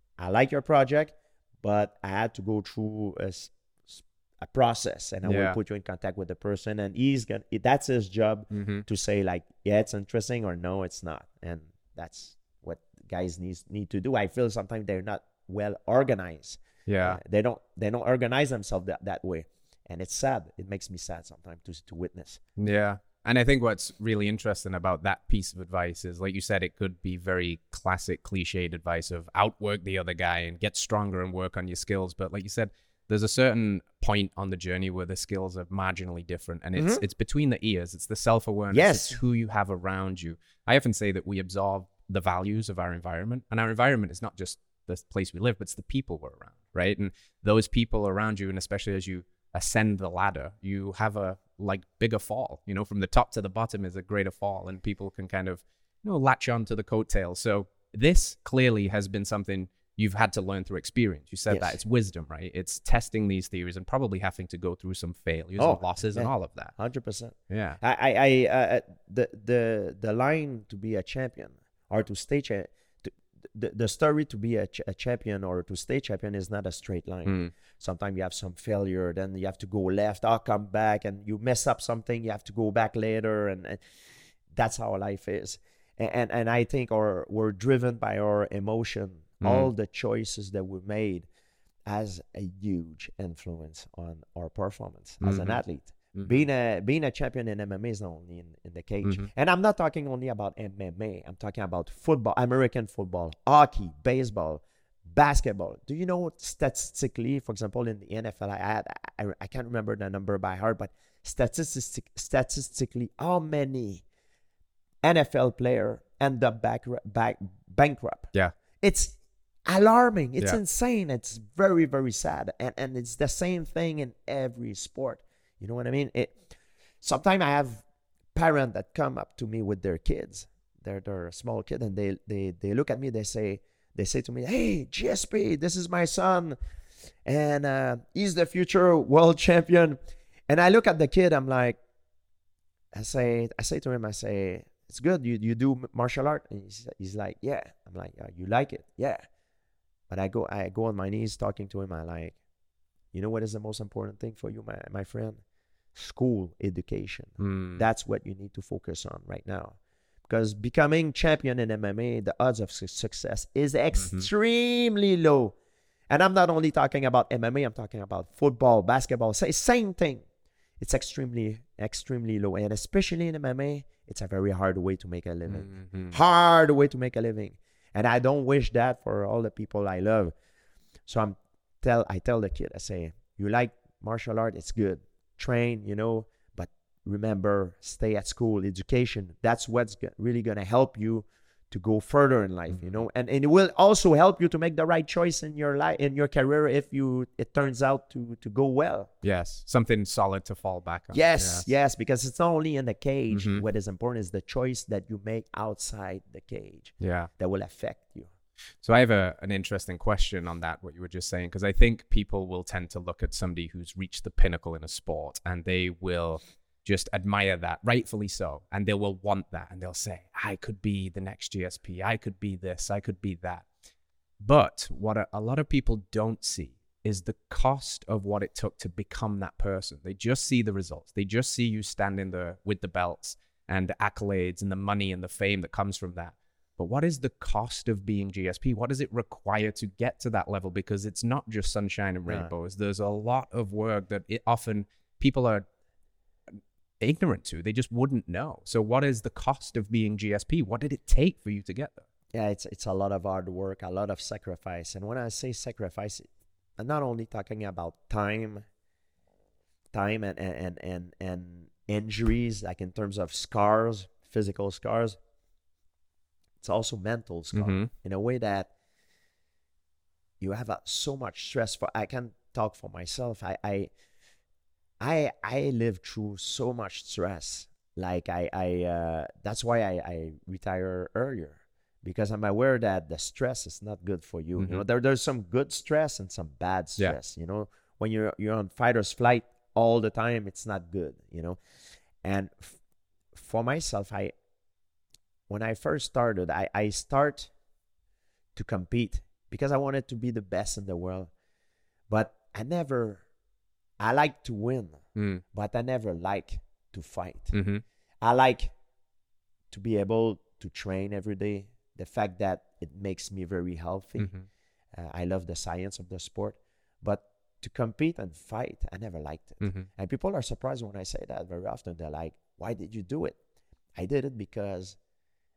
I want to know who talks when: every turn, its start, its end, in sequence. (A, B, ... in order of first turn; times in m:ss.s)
0:00.2-0:22.4 A
0:05.2-0:05.6 B
0:08.5-0:08.8 B
0:16.8-0:17.2 B
0:22.6-1:06.7 B
0:36.8-0:37.0 A
0:38.7-0:39.2 A
1:01.5-1:01.8 A
1:05.6-1:23.8 A
1:07.5-1:07.8 B
1:17.2-1:17.5 B
1:24.5-1:31.3 A
1:29.4-1:29.7 B
1:31.8-1:54.0 A
1:35.2-1:35.6 B
1:36.1-1:36.4 B
1:39.0-1:39.3 B
1:55.0-2:06.4 A
2:07.0-2:07.8 A
2:08.3-2:16.6 A
2:17.2-2:21.8 A
2:22.9-2:29.2 A
2:30.1-2:32.4 A
2:33.1-2:35.4 A
2:35.9-2:45.6 A
2:37.4-2:37.8 B
2:44.0-2:44.3 B
2:46.1-2:50.2 A
2:50.8-3:00.3 A
2:55.5-2:56.2 B
3:01.0-3:19.1 A
3:12.7-3:13.0 B
3:19.2-3:21.7 B
3:21.1-3:28.3 A
3:23.3-3:23.6 B
3:27.0-3:27.3 B
3:28.8-3:43.7 B
3:44.4-4:05.6 B
4:02.3-4:02.5 A
4:07.0-4:12.0 B
4:12.3-4:16.3 A
4:16.8-4:18.6 A
4:19.9-4:25.2 A
4:26.6-4:28.7 A
4:27.5-4:27.9 B
4:30.4-4:33.9 A
4:35.0-4:51.6 A
4:44.6-4:44.8 B
4:52.2-4:52.8 A
4:53.3-4:54.3 A
4:55.5-4:57.5 A
4:58.5-5:01.3 A
5:02.1-5:03.2 A
5:04.0-5:07.6 A
5:05.2-5:05.4 B
5:07.5-5:07.8 B
5:08.2-5:08.7 A
5:09.7-5:14.4 A
5:14.2-5:14.4 B
5:14.9-5:23.4 A
5:19.6-5:19.9 B
5:24.0-5:25.0 A